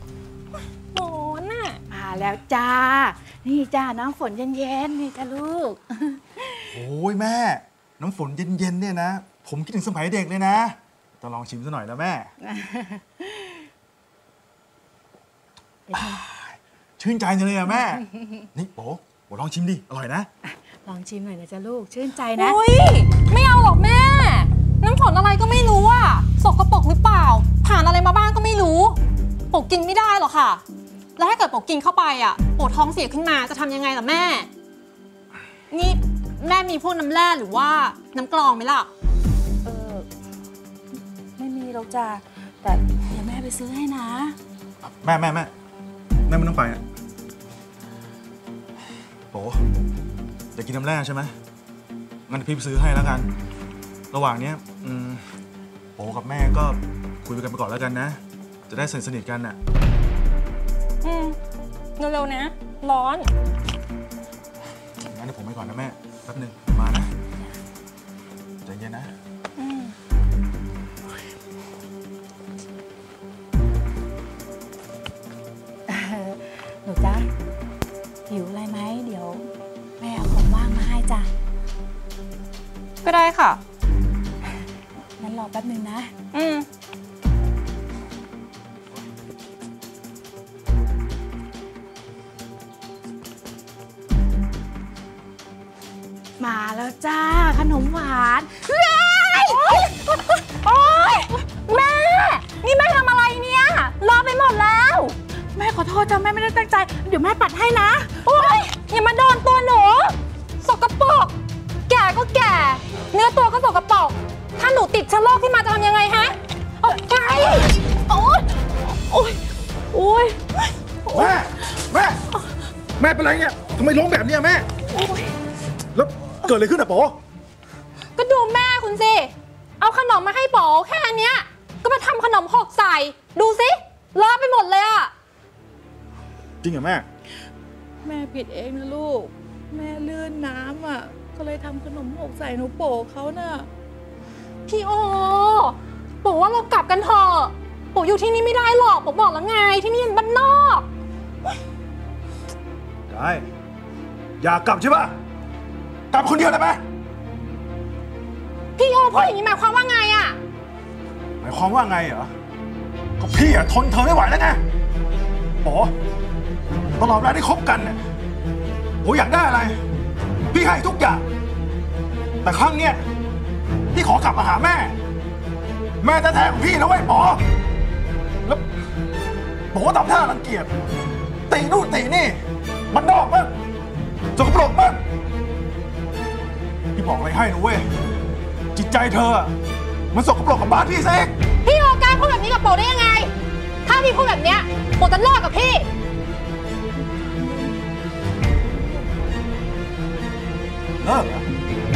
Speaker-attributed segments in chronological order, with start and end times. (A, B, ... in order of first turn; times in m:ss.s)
0:00.9-0:01.8 A
0:01.9-0:06.7 B
0:06.7-0:12.3 C
0:12.4-0:13.6 B
0:15.9-0:16.2 B
0:16.0-0:20.3 C
0:20.7-0:22.6 B
0:22.4-0:29.0 A
0:29.5-0:30.6 A
0:31.2-0:34.5 A
0:35.7-0:38.9 A
0:39.6-0:40.1 B
0:41.4-0:44.4 B
0:44.8-0:45.5 C
0:46.2-0:46.8 C
0:49.3-0:49.6 C
0:50.5-0:51.3 C
0:52.3-0:53.3 C
0:54.1-0:55.3 C
0:56.0-0:59.6 C
1:01.0-1:01.4 A
1:02.0-1:03.3 A
1:05.0-1:07.1 C
1:08.6-1:09.1 C
1:09.6-1:09.9 A
1:15.9-1:17.3 B
1:18.3-1:19.5 B
1:20.0-1:21.3 B
1:23.0-1:23.6 A
1:25.2-1:26.1 B
1:26.3-1:26.7 A
1:36.4-1:39.9 B
1:38.7-1:45.2 A
1:45.5-1:48.6 B
1:48.2-1:51.3 A
1:51.9-1:57.7 A
1:57.9-2:00.6 B
2:01.1-2:02.2 C
2:03.0-2:04.7 C
2:04.9-2:05.3 B
2:05.9-2:07.2 C
2:08.1-2:15.1 A
2:16.6-2:17.1 C
2:18.0-2:23.7 B
2:24.7-2:30.8 A
2:33.1-2:33.5 C
2:34.4-2:35.2 C
2:36.1-2:36.8 C
2:38.8-2:40.4 A
2:41.4-2:42.3 C
2:43.2-2:44.6 C
2:45.6-2:45.9 C
2:47.0-2:48.0 C
2:49.0-2:49.8 C
2:50.5-2:51.2 C
2:52.4-2:53.0 C
2:53.9-2:55.0 C
2:56.0-2:57.4 C
2:59.7-3:00.7 C
3:01.5-3:02.4 C
3:02.9-3:03.5 C
3:04.4-3:05.0 C
3:06.9-3:07.8 C
3:08.7-3:09.5 C
3:10.1-3:11.3 C
3:11.6-3:13.3 A
3:13.8-3:15.9 A
3:17.2-3:17.8 B
3:18.6-3:19.1 B
3:21.0-3:21.4 C